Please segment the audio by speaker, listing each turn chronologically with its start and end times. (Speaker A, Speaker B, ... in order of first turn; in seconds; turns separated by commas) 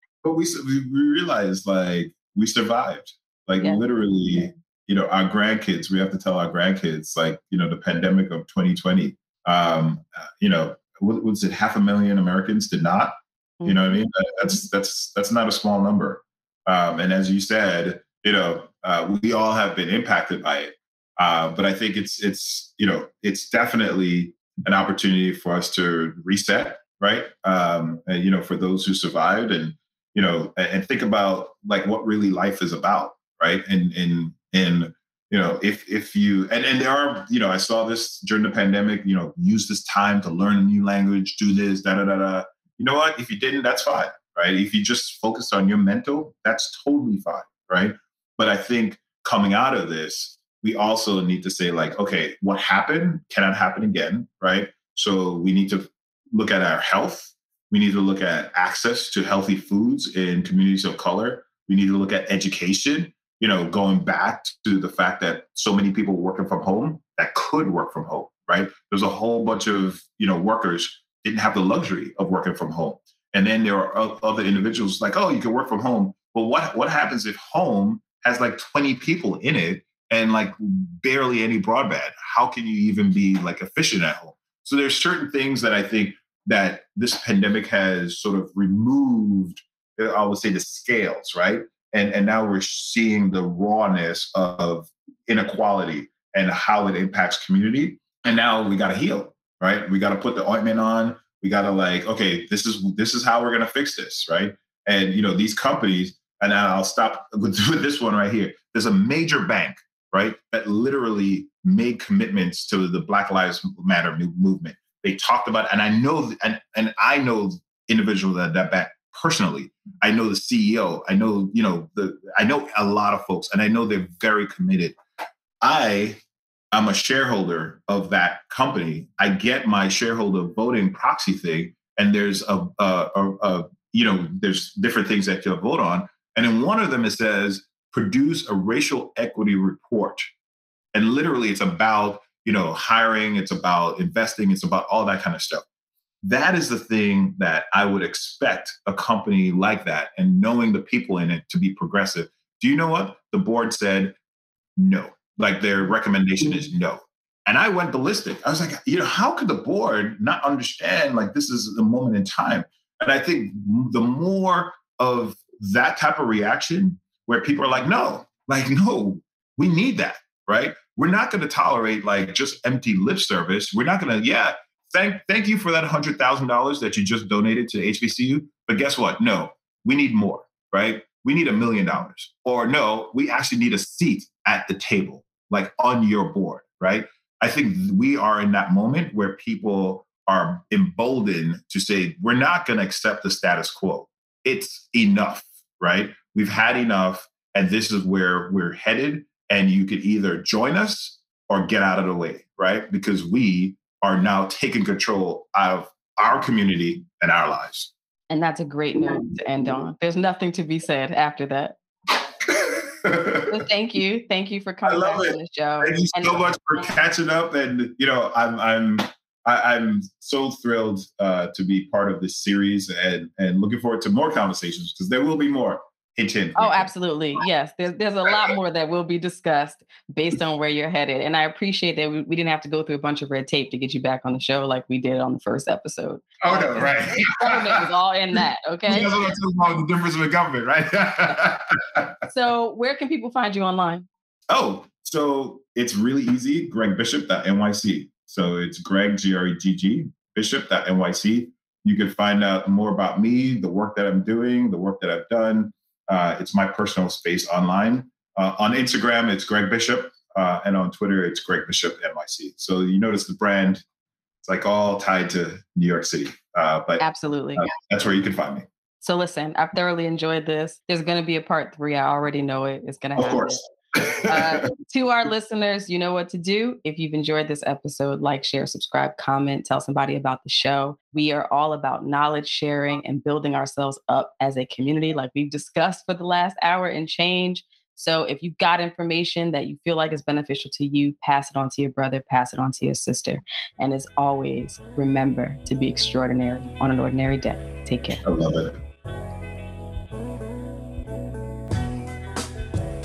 Speaker A: 0.2-125.0, Speaker B: 13.6-13.9, Speaker A: 125.6-126.2, Speaker A: 126.7-140.2, Speaker A: 140.9-145.7, Speaker A: 146.2-154.2, Speaker A: 154.8-207.9, Speaker B: 208.3-211.8, Speaker A: 212.4-213.5, Speaker B: 213.5-216.5, Speaker A: 214.9-226.9, Speaker B: 226.6-239.2, Speaker A: 236.4-237.8, Speaker A: 238.9-242.1, Speaker B: 242.3-244.1, Speaker A: 244.5-263.8, Speaker A: 264.4-267.0, Speaker B: 267.0-267.7, Speaker A: 267.6-268.7, Speaker B: 269.0-273.6, Speaker A: 273.2-274.7, Speaker B: 274.3-298.2, Speaker A: 298.2-298.8